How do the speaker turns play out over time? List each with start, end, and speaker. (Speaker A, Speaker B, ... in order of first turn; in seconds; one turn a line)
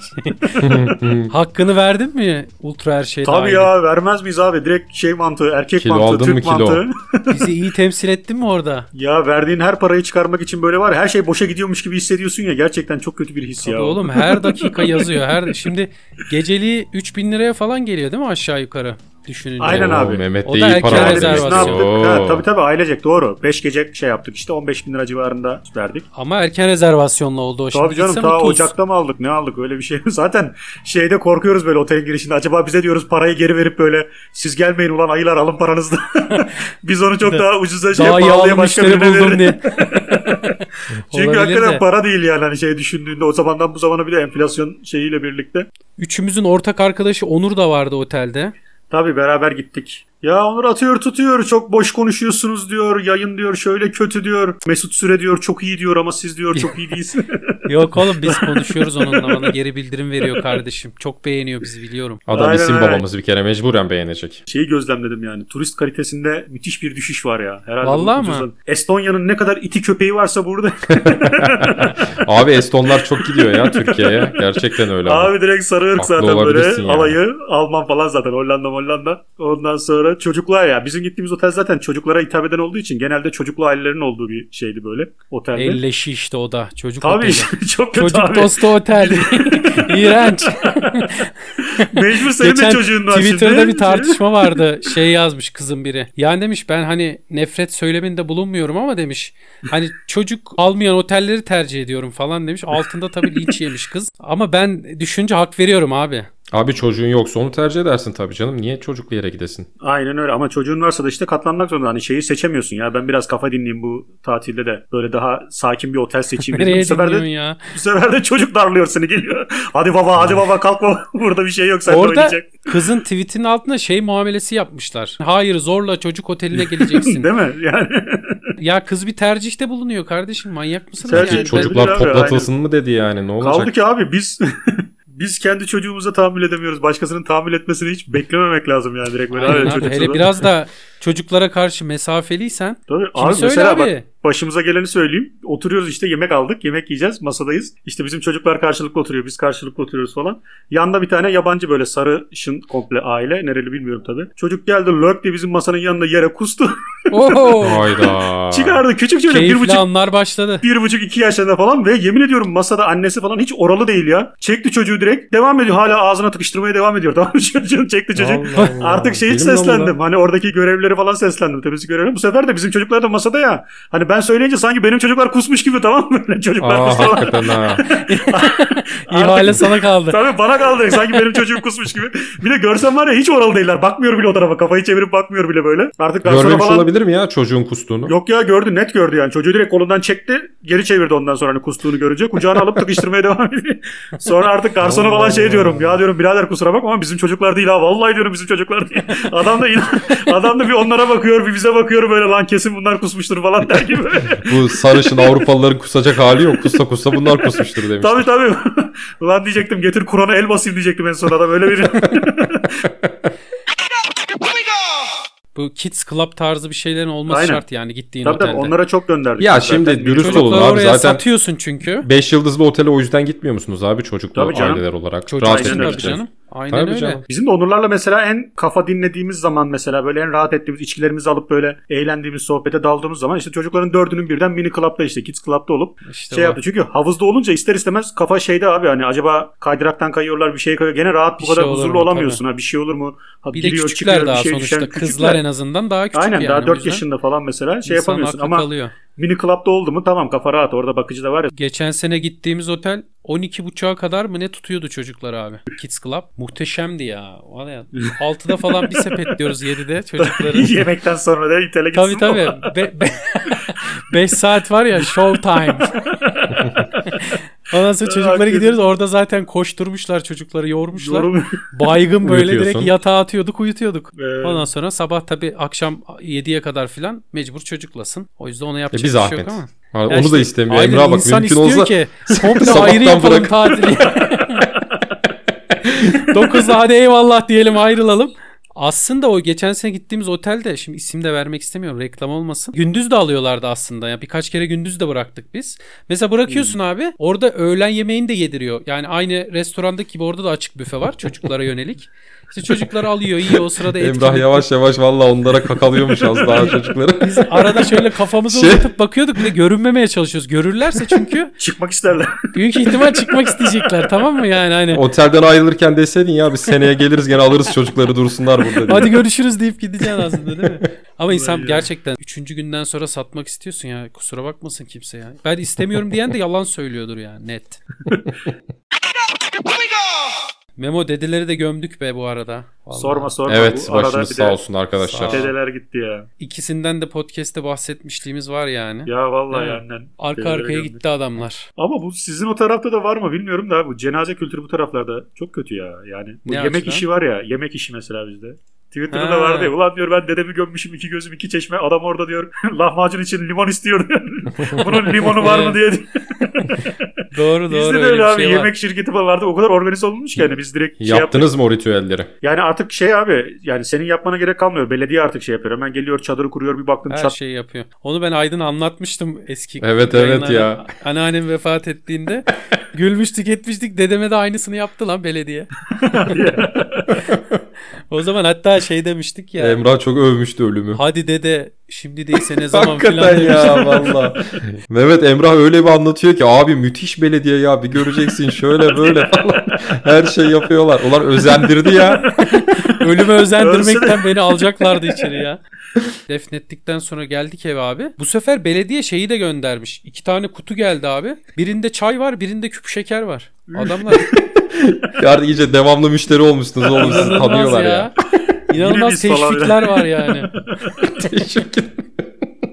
Speaker A: 0.1-0.7
Speaker B: 0.6-1.3
Speaker A: 1.3-3.7
Speaker C: 3.2-7.5
Speaker B: 5.8-6.8
Speaker A: 7.3-8.9
Speaker C: 8.9-15.7
Speaker A: 13.6-21.8
Speaker C: 19.6-20.2
Speaker B: 19.7-22.4
Speaker C: 20.8-26.1
Speaker A: 26.1-28.7
Speaker C: 27.7-40.5
Speaker A: 37.2-41.8
Speaker C: 41.1-45.7
Speaker A: 46.0-48.5
Speaker C: 48.9-59.5
Speaker A: 57.7-62.2
Speaker C: 60.2-60.6
Speaker B: 62.3-64.4
Speaker C: 62.3-63.0
Speaker C: 64.5-72.1
Speaker A: 67.8-68.5
Speaker B: 70.9-75.3
Speaker C: 73.0-85.8
Speaker B: 76.0-77.2
Speaker A: 85.5-106.3
Speaker C: 87.0-91.1
Speaker C: 91.7-94.5
Speaker B: 106.5-109.7
Speaker C: 109.8-122.7
Speaker A: 116.5-117.6
Speaker A: 121.9-127.3
Speaker C: 126.5-128.4
Speaker A: 128.6-131.8
Speaker C: 131.1-132.5
Speaker B: 131.1-133.7
Speaker C: 133.4-140.4
Speaker A: 139.3-144.0
Speaker C: 142.9-157.6
Speaker A: 157.1-157.9
Speaker B: 157.6-158.8
Speaker C: 158.5-159.8
Speaker A: 159.3-160.6
Speaker C: 160.6-186.9
Speaker B: 168.2-169.9
Speaker A: 168.5-168.8
Speaker B: 176.6-177.8
Speaker A: 177.9-180.2
Speaker A: 180.9-181.4
Speaker B: 186.2-188.1
Speaker C: 188.1-205.2
Speaker B: 194.8-196.0
Speaker B: 204.3-208.2
Speaker C: 208.0-212.8
Speaker A: 215.5-218.7
Speaker C: 217.3-217.6
Speaker C: 218.2-220.7
Speaker B: 219.4-221.2
Speaker A: 220.2-222.1
Speaker B: 222.0-227.2
Speaker C: 224.3-224.8
Speaker A: 225.3-227.2
Speaker C: 225.4-226.2
Speaker C: 227.3-245.4
Speaker A: 236.0-236.6
Speaker A: 241.4-242.4
Speaker A: 243.5-247.0
Speaker C: 246.1-251.5
Speaker A: 247.8-248.9
Speaker A: 251.5-260.8
Speaker C: 258.7-259.2
Speaker C: 260.2-262.7
Speaker A: 261.9-266.1
Speaker C: 266.2-266.6
Speaker A: 267.0-284.7
Speaker C: 268.0-268.8
Speaker C: 270.9-271.6
Speaker B: 272.2-272.9
Speaker C: 274.1-274.6
Speaker B: 278.9-284.1
Speaker B: 285.8-286.4
Speaker A: 285.9-304.7
Speaker C: 296.5-296.8
Speaker B: 303.9-308.9
Speaker C: 306.2-306.6
Speaker A: 307.2-311.5
Speaker C: 311.6-314.1
Speaker A: 312.5-315.0
Speaker B: 314.9-319.2
Speaker A: 318.8-327.8
Speaker C: 321.3-321.9
Speaker A: 330.8-333.3
Speaker C: 332.9-334.6
Speaker B: 333.5-335.5
Speaker A: 335.0-335.5
Speaker C: 335.2-336.3
Speaker A: 336.4-341.7
Speaker C: 339.1-341.0
Speaker C: 341.8-361.5
Speaker A: 346.4-347.0
Speaker A: 349.1-349.7
Speaker A: 355.1-355.8
Speaker A: 357.3-358.7
Speaker B: 361.0-362.3
Speaker C: 362.4-367.4
Speaker A: 367.1-376.4
Speaker B: 369.8-370.8
Speaker C: 376.0-377.1
Speaker A: 378.1-379.8
Speaker B: 379.6-381.0
Speaker A: 380.9-384.1
Speaker B: 382.7-392.3
Speaker C: 391.9-395.3
Speaker A: 392.3-395.6
Speaker A: 396.3-404.3
Speaker C: 403.7-404.5
Speaker B: 404.7-408.1
Speaker C: 406.8-407.4
Speaker A: 406.9-408.1
Speaker A: 408.7-410.5
Speaker C: 408.7-411.2
Speaker B: 410.9-412.4